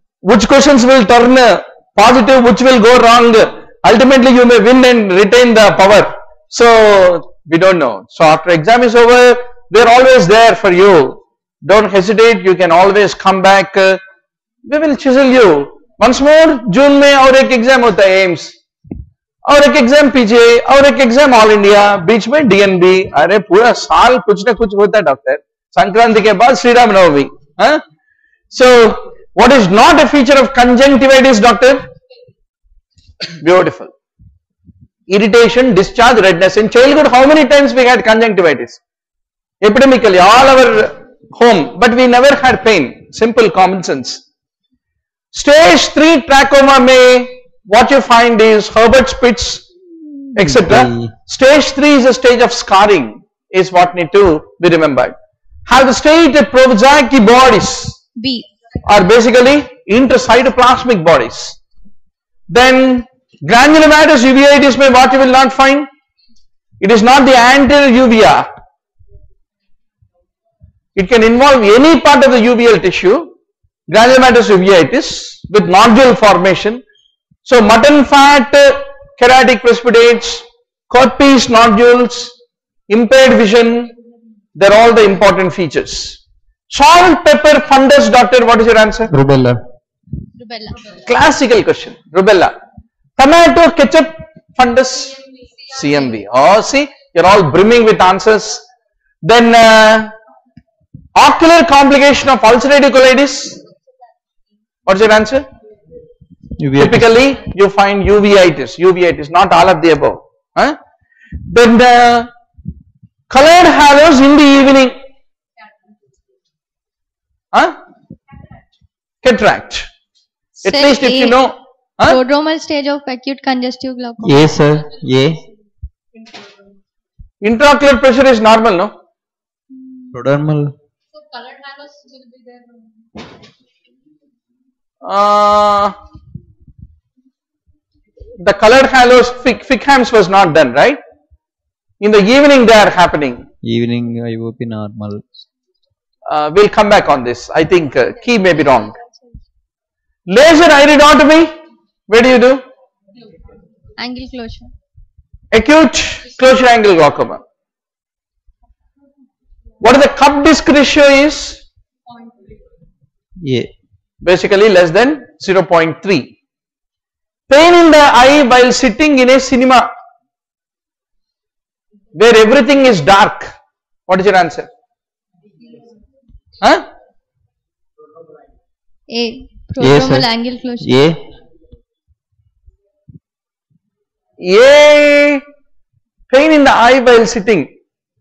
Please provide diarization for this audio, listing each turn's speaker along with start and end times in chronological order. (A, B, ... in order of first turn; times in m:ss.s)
0:00.2-0:14.0 A
0:14.7-0:18.5 A
0:19.4-0:27.8 A
0:28.5-0:31.9 A
0:33.4-0:33.9 A
0:35.1-0:38.8 A
0:39.6-0:44.2 A
0:45.3-0:49.6 A
0:50.3-0:58.0 A
0:50.4-0:51.1 B
0:58.2-0:58.4 C
0:58.8-1:01.6 A
1:02.5-1:05.9 A
1:06.8-1:08.5 A
1:11.0-1:13.3 A
1:13.9-1:16.8 A
1:17.4-1:22.3 A
1:22.9-1:23.9 A
1:24.6-1:26.2 A
1:26.7-1:29.1 A
1:29.1-1:29.6 B
1:30.4-1:30.8 C
1:31.0-1:32.5 A
1:33.2-1:38.6 A
1:39.2-1:40.1 A
1:41.1-1:43.6 A
1:44.8-1:45.4 A
1:46.6-1:47.1 B
1:46.8-1:50.8 A
1:51.5-1:52.3 A
1:53.3-1:55.0 A
1:59.2-1:59.8 A
2:00.6-2:02.2 A
2:00.6-2:01.4 C
2:02.1-2:04.4 C
2:04.2-2:05.4 B
2:07.4-2:08.9 A
2:10.1-2:10.7 B
2:11.8-2:12.2 C
2:15.0-2:15.9 A
2:18.4-2:21.0 A
2:22.0-2:23.4 A
2:23.6-2:25.2 B
2:26.3-2:28.9 A
2:30.3-2:31.5 A
2:32.1-2:32.6 A
2:34.0-2:34.7 C
2:35.5-2:37.4 A
2:39.8-2:41.6 A
2:43.4-2:43.7 B
2:44.2-2:46.3 A
2:47.5-2:49.9 A
2:52.1-2:53.5 A
2:54.1-2:54.7 A
2:56.6-2:56.8 A
2:59.1-3:00.9 C
2:59.8-3:00.3 B
3:00.8-3:01.2 B
3:04.4-3:05.4 A
3:06.3-3:07.7 A